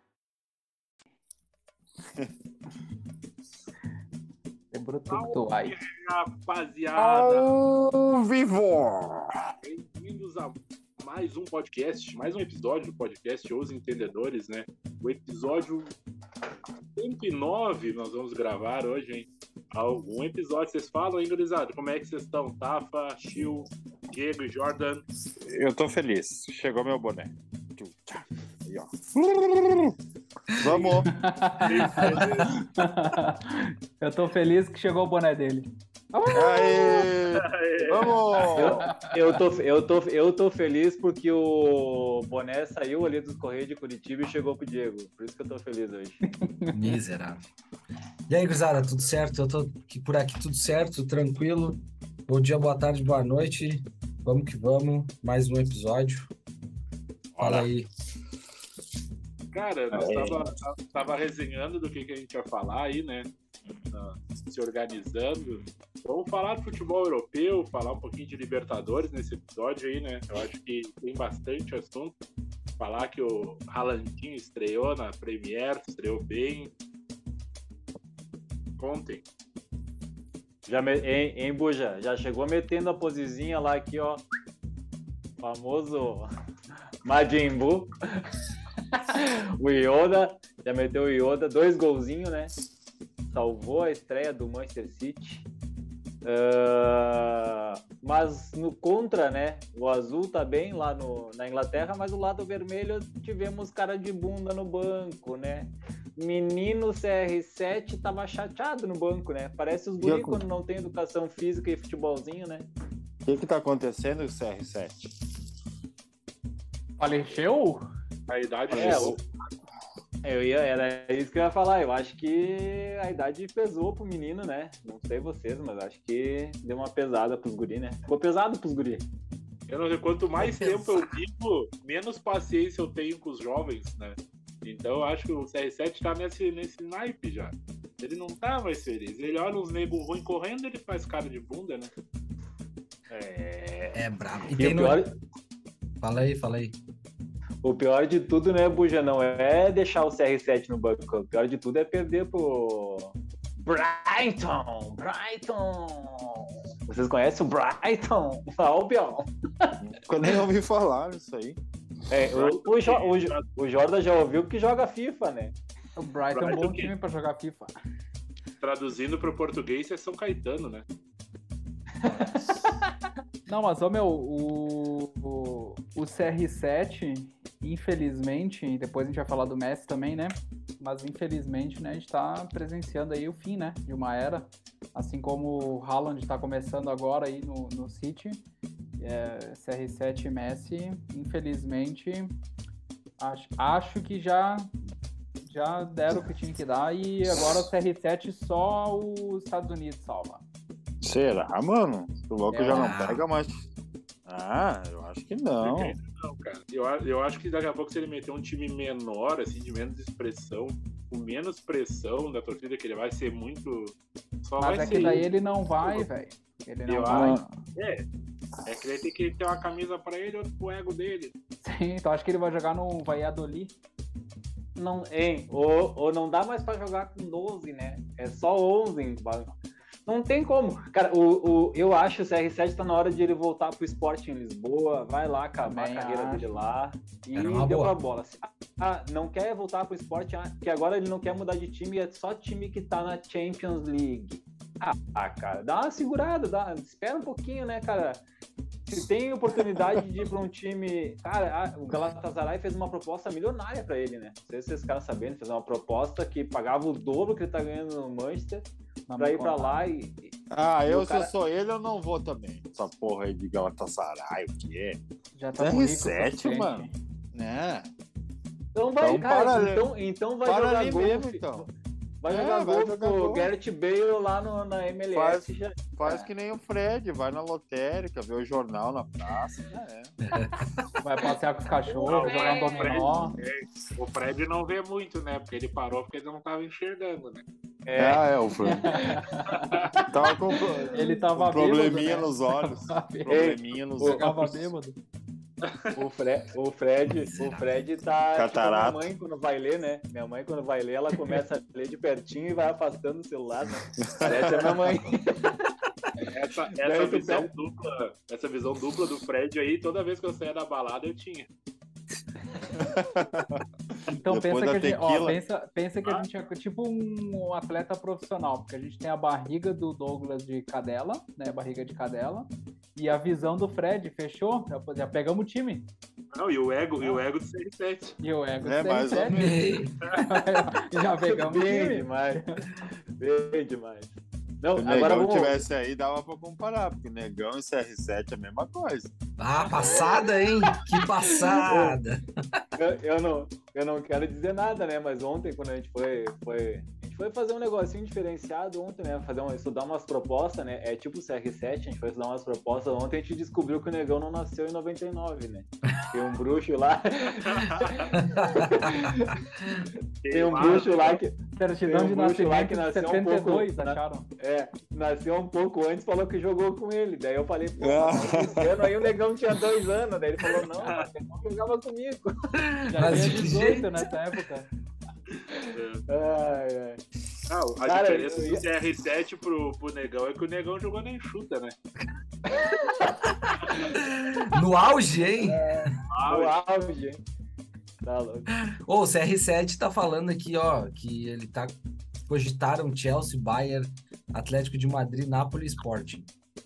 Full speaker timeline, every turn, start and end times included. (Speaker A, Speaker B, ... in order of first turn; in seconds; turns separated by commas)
Speaker A: 4.7-5.8, Speaker B: 5.1-7.5, Speaker C: 7.0-9.5, Speaker B: 9.6-15.9, Speaker B: 17.0-25.1, Speaker C: 25.4-29.9, Speaker C: 30.5-31.1, Speaker B: 30.6-32.6, Speaker A: 31.0-37.1, Speaker C: 32.1-32.5, Speaker C: 36.3-38.9, Speaker B: 37.3-38.6, Speaker D: 38.5-46.2, Speaker A: 38.7-39.1, Speaker A: 46.3-47.0, Speaker E: 46.7-47.5, Speaker E: 48.3-56.3, Speaker C: 57.4-57.7, Speaker E: 57.4-57.9, Speaker B: 59.5-63.3, Speaker C: 59.9-60.4, Speaker B: 63.9-72.1, Speaker B: 72.8-76.7, Speaker B: 78.8-79.2, Speaker D: 80.7-84.2, Speaker D: 85.4-86.3, Speaker D: 87.0-87.9, Speaker D: 88.9-92.5, Speaker D: 93.3-95.5, Speaker D: 96.2-112.7, Speaker C: 110.0-110.4, Speaker C: 113.2-115.0, Speaker A: 117.0-117.9, Speaker B: 118.3-119.2, Speaker D: 118.7-119.2, Speaker C: 118.8-119.1, Speaker D: 120.2-129.1, Speaker B: 129.7-141.9, Speaker E: 130.7-131.1, Speaker D: 143.1-144.0, Speaker E: 143.9-145.0, Speaker D: 144.6-145.1, Speaker E: 146.0-146.8, Speaker D: 147.6-159.7, Speaker C: 159.8-161.6, Speaker D: 162.1-165.6, Speaker B: 162.3-163.4, Speaker A: 166.0-167.7, Speaker B: 166.3-166.9, Speaker B: 168.6-170.8, Speaker A: 172.0-172.7, Speaker A: 173.5-188.4, Speaker A: 189.0-192.4, Speaker A: 193.2-194.8, Speaker A: 195.5-200.4, Speaker C: 201.0-203.6, Speaker A: 202.5-202.9, Speaker E: 202.7-203.3, Speaker C: 204.3-206.0, Speaker B: 205.6-215.3, Speaker A: 214.6-217.4, Speaker C: 214.8-215.3, Speaker B: 216.9-218.0, Speaker C: 217.1-217.5, Speaker B: 218.7-221.3, Speaker A: 221.6-223.8, Speaker D: 224.8-229.5, Speaker D: 230.1-248.2, Speaker A: 235.6-236.7, Speaker E: 237.3-238.0, Speaker D: 248.9-258.7, Speaker A: 259.1-259.9, Speaker D: 259.2-261.3, Speaker C: 260.5-265.0, Speaker A: 265.4-266.9, Speaker C: 265.6-267.9, Speaker D: 268.8-271.6, Speaker C: 269.0-269.9, Speaker C: 270.4-271.7, Speaker D: 272.2-276.3, Speaker C: 272.3-273.5, Speaker C: 275.1-280.1, Speaker E: 280.3-280.7, Speaker A: 281.0-283.4, Speaker D: 282.0-283.2, Speaker B: 282.1-287.4, Speaker D: 287.9-288.2, Speaker C: 288.0-289.2, Speaker A: 288.6-289.9, Speaker B: 289.6-289.9, Speaker C: 290.1-294.7, Speaker A: 290.9-295.0, Speaker D: 293.3-294.2, Speaker B: 295.6-295.9, Speaker D: 295.9-305.7, Speaker E: 297.2-297.6, Speaker C: 298.3-299.1, Speaker C: 303.9-304.9, Speaker B: 306.3-311.5, Speaker D: 306.8-307.5, Speaker C: 312.7-315.4, Speaker A: 314.1-325.9, Speaker B: 326.3-328.2, Speaker A: 328.2-332.6, Speaker C: 328.6-329.7, Speaker E: 329.3-330.0, Speaker B: 330.1-330.4, Speaker D: 331.2-335.6, Speaker C: 334.8-339.1, Speaker E: 339.4-342.6, Speaker D: 339.7-340.2, Speaker D: 341.6-342.0, Speaker D: 342.8-372.6, Speaker B: 357.5-358.1, Speaker E: 358.1-359.9, Speaker B: 360.2-361.2, Speaker A: 361.6-364.3, Speaker C: 367.8-368.9, Speaker E: 372.6-374.1, Speaker A: 372.9-374.7, Speaker B: 375.7-376.0, Speaker D: 376.1-377.0, Speaker B: 377.5-381.8, Speaker D: 377.9-378.6, Speaker D: 382.6-383.9, Speaker E: 383.9-386.0, Speaker D: 385.4-387.2, Speaker B: 386.1-386.6, Speaker D: 388.0-388.5, Speaker E: 388.7-391.8, Speaker E: 392.3-396.3